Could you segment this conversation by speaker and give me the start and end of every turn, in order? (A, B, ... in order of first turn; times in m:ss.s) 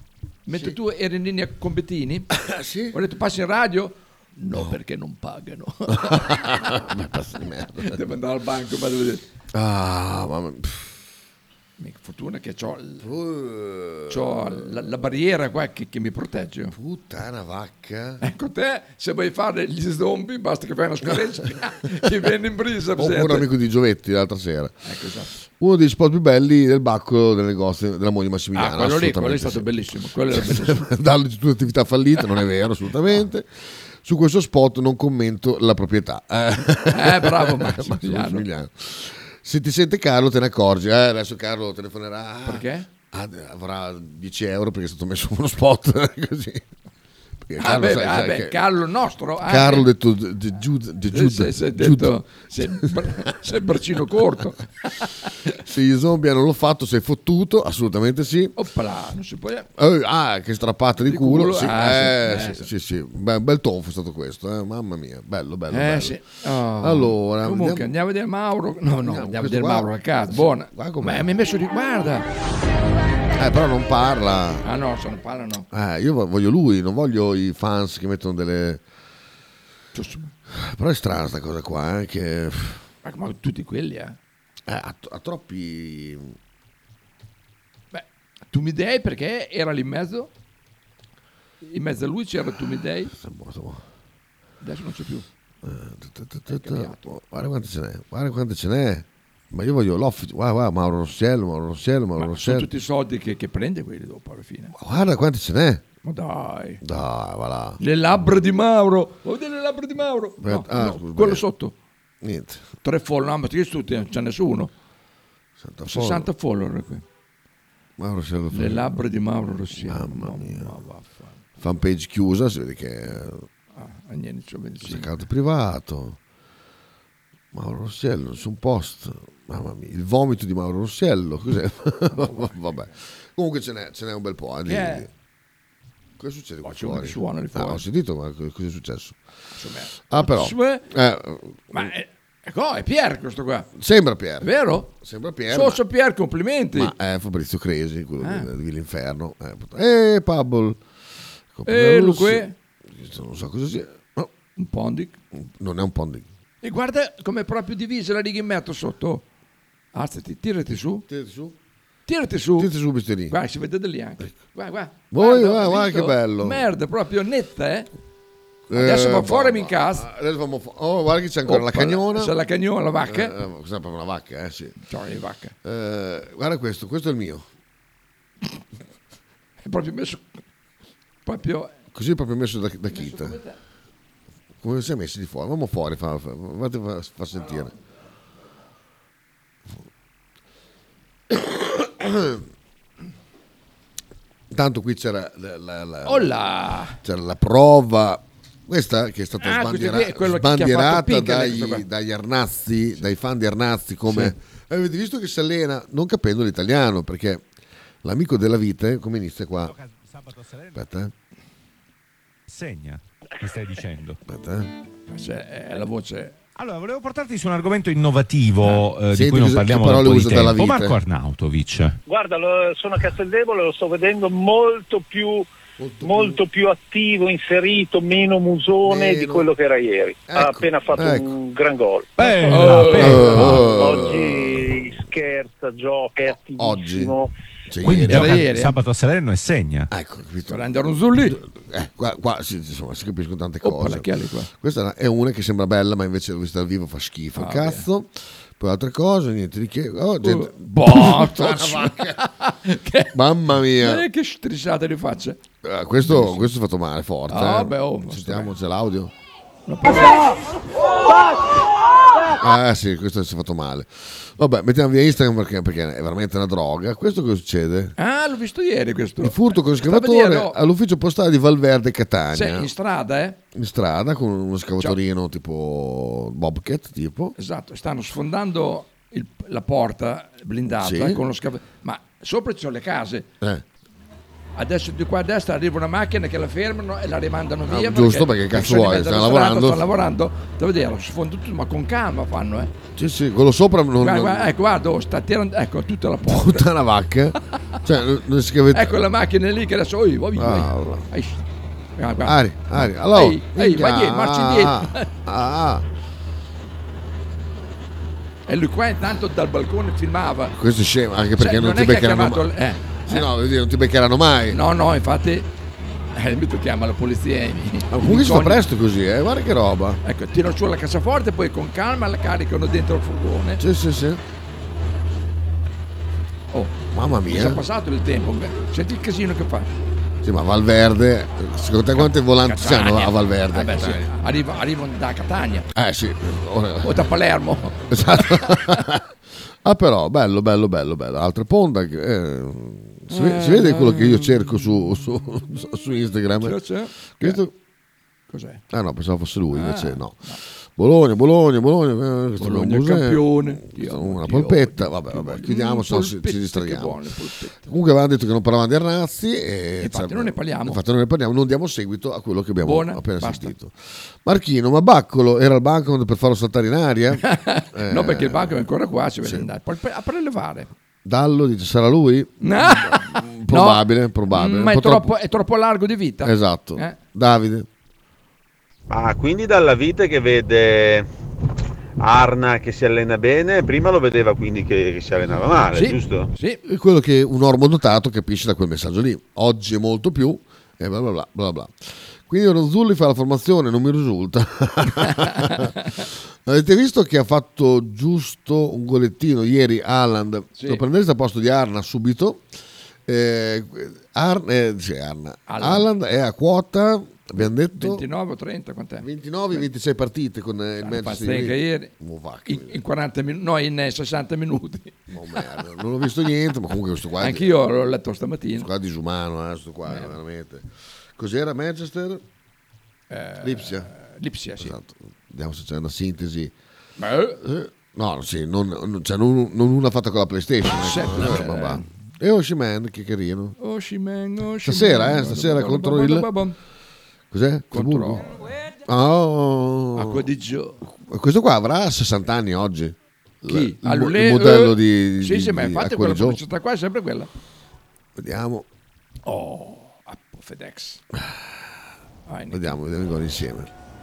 0:00.4-0:02.3 A
0:02.4-0:02.9 B
0:02.9-0:06.4 A
0:06.0-0:08.0 B
0:07.8-0:09.2 A
0:09.5-0:10.9 B
0:11.8-0:13.0 A
0:13.0-0:14.7 B
0:14.1-0:16.7 A
0:16.7-0:18.2 B
0:18.2-0:23.5 A
0:23.0-0:24.7 B
0:24.8-0:25.3 A
0:25.6-0:29.7 B
0:28.5-0:30.9 A
0:30.3-0:46.6 B
0:36.9-0:38.4 A
0:42.4-0:42.9 A
0:47.5-0:48.6 B
0:47.6-0:49.9 A
0:49.4-0:53.3 B
0:51.1-0:55.5 A
0:55.6-0:58.5 B
0:58.6-0:59.7 A
0:59.8-1:06.2 B
1:01.1-1:02.7 A
1:05.7-1:12.3 A
1:06.8-1:07.9 B
1:09.0-1:11.3 B
1:13.3-1:14.6 B
1:14.6-1:15.7 A
1:15.7-1:18.8 B
1:19.9-1:20.3 A
1:20.5-1:22.8 B
1:23.0-1:24.2 A
1:24.7-1:26.3 B
1:27.9-1:30.3 A
1:31.6-1:33.1 A
1:33.1-1:33.8 B
1:34.6-1:35.3 A
1:35.6-1:42.7 B
1:36.5-1:37.1 A
1:42.2-1:44.7 A
1:44.7-1:45.8 B
1:46.0-1:46.8 A
1:46.8-1:47.8 B
1:47.8-1:51.7 A
1:50.4-1:51.4 B
1:52.2-1:52.6 B
1:52.8-1:54.7 A
1:55.6-1:56.3 B
1:55.9-1:57.0 A
1:58.0-1:59.0 B
1:58.5-2:01.4 A
1:59.8-2:00.8 B
2:01.6-2:03.4 B
2:03.7-2:05.1 A
2:04.8-2:06.2 B
2:07.5-2:15.1 B
2:12.1-2:12.8 A
2:14.7-2:15.0 A
2:16.2-2:19.2 B
2:16.6-2:17.8 A
2:19.5-2:20.8 A
2:20.1-2:21.9 B
2:21.7-2:23.7 A
2:23.7-2:25.8 B
2:24.4-2:24.9 A
2:25.5-2:26.9 A
2:26.7-2:30.8 B
2:28.2-2:28.5 A
2:31.5-2:34.3 B
2:31.6-2:32.5 A
2:34.6-2:35.2 A
2:35.4-2:36.3 B
2:36.6-2:39.2 A
2:39.9-2:41.0 A
2:41.1-2:41.5 B
2:42.1-2:42.7 A
2:42.6-2:43.4 B
2:43.3-2:47.9 A
2:45.1-2:46.6 B
2:48.7-2:52.3 B
2:48.7-2:50.0 A
2:51.5-2:53.3 A
2:53.0-2:54.7 B
2:54.9-2:55.5 A
2:55.6-2:57.4 B
2:59.6-3:00.2 A
3:01.2-3:01.7 A
3:01.9-3:03.4 B
3:02.9-3:03.6 A
3:04.6-3:07.7 B
3:11.3-3:12.4 B
3:14.5-3:16.3 B
3:16.0-3:17.0 A
3:17.0-3:27.4 B
3:19.4-3:21.8 A
3:24.1-3:24.3 A
3:28.0-3:29.7 B
3:29.6-3:30.8 C
3:30.7-3:31.1 B
3:32.5-3:34.2 C
3:34.3-3:34.7 B
3:35.1-3:36.4 A
3:36.6-3:42.0 C
3:39.1-3:40.9 B
3:42.0-3:45.5 D
3:45.8-3:46.4 B
3:46.0-3:52.3 D
3:48.8-3:49.5 B
3:50.3-3:51.3 B
3:52.2-3:53.7 C
3:52.5-3:53.7 A
3:52.9-3:54.8 B
3:53.6-3:57.3 D
3:56.6-3:57.1 B
3:57.7-3:58.4 B
3:57.8-3:59.9 C
3:58.0-3:58.8 A
3:59.9-4:00.6 B
4:00.4-4:01.4 A
4:01.3-4:12.2 B
4:03.6-4:04.5 A
4:07.4-4:07.8 A
4:10.2-4:13.1 A
4:13.1-4:14.0 B
4:13.8-4:15.4 A
4:15.6-4:19.1 B
4:16.0-4:16.5 A
4:17.3-4:18.5 A
4:19.7-4:20.2 A
4:22.3-4:27.9 B
4:28.0-4:30.6 A
4:29.2-4:32.7 B
4:32.3-4:33.4 A
4:33.5-4:37.3 B
4:37.4-4:43.3 A
4:40.8-4:41.2 B
4:44.6-4:52.7 A
4:47.7-4:49.8 B
4:52.9-4:54.5 B
4:54.0-4:56.6 A
4:56.2-4:59.0 B
4:58.7-5:01.4 A
5:00.4-5:01.0 B
5:02.0-5:05.1 A
5:02.2-5:05.8 B
5:08.5-5:10.5 A
5:10.5-5:12.5 B
5:11.4-5:13.2 A
5:13.0-5:14.6 B
5:14.5-5:15.5 A
5:16.1-5:18.6 A
5:17.9-5:20.0 B
5:20.0-5:23.6 A
5:23.6-5:24.2 B
5:26.5-5:29.7 A
5:26.9-5:27.6 B
5:30.2-5:34.0 B
5:32.0-5:35.7 A
5:35.7-5:37.0 B
5:36.8-5:38.8 A
5:37.9-5:39.0 B
5:39.6-5:46.6 B
5:43.1-5:44.4 A
5:46.4-5:47.4 A
5:47.2-5:47.5 B
5:48.3-5:48.6 A
5:48.7-5:50.2 B
5:49.5-5:50.4 A
5:50.8-5:57.0 B
5:52.4-5:57.7 A
5:57.6-6:08.6 B
5:59.8-6:00.8 A
6:02.6-6:03.5 A
6:07.2-6:10.7 A
6:11.0-6:15.1 B
6:12.4-6:17.0 A
6:16.2-6:17.7 B
6:18.9-6:21.1 E
6:22.0-6:26.3 E
6:25.7-6:26.6 A
6:26.6-6:35.7 B
6:35.1-6:36.0 A
6:36.4-6:42.4 B
6:40.6-6:40.8 A
6:43.1-6:48.0 B
6:45.5-6:45.9 A
6:47.7-6:49.6 A
6:49.0-6:52.8 B
6:50.8-6:51.9 A
6:52.5-6:55.1 A
6:55.1-6:57.5 B
6:57.2-6:58.7 A
6:58.6-7:02.2 B
6:59.9-7:00.1 A
7:03.1-7:04.8 A
7:03.4-7:03.9 B
7:04.6-7:06.5 B
7:07.0-7:07.4 A
7:07.4-7:13.6 B
7:10.7-7:11.9 A
7:13.6-7:16.6 A
7:14.6-7:16.3 B
7:17.3-7:18.3 B
7:17.7-7:18.3 A
7:18.8-7:20.2 B
7:20.0-7:20.8 A
7:20.8-7:26.4 B
7:23.5-7:27.3 A
7:28.2-7:28.6 B
7:29.2-7:31.0 A
7:32.3-7:32.8 A
7:32.5-7:33.7 B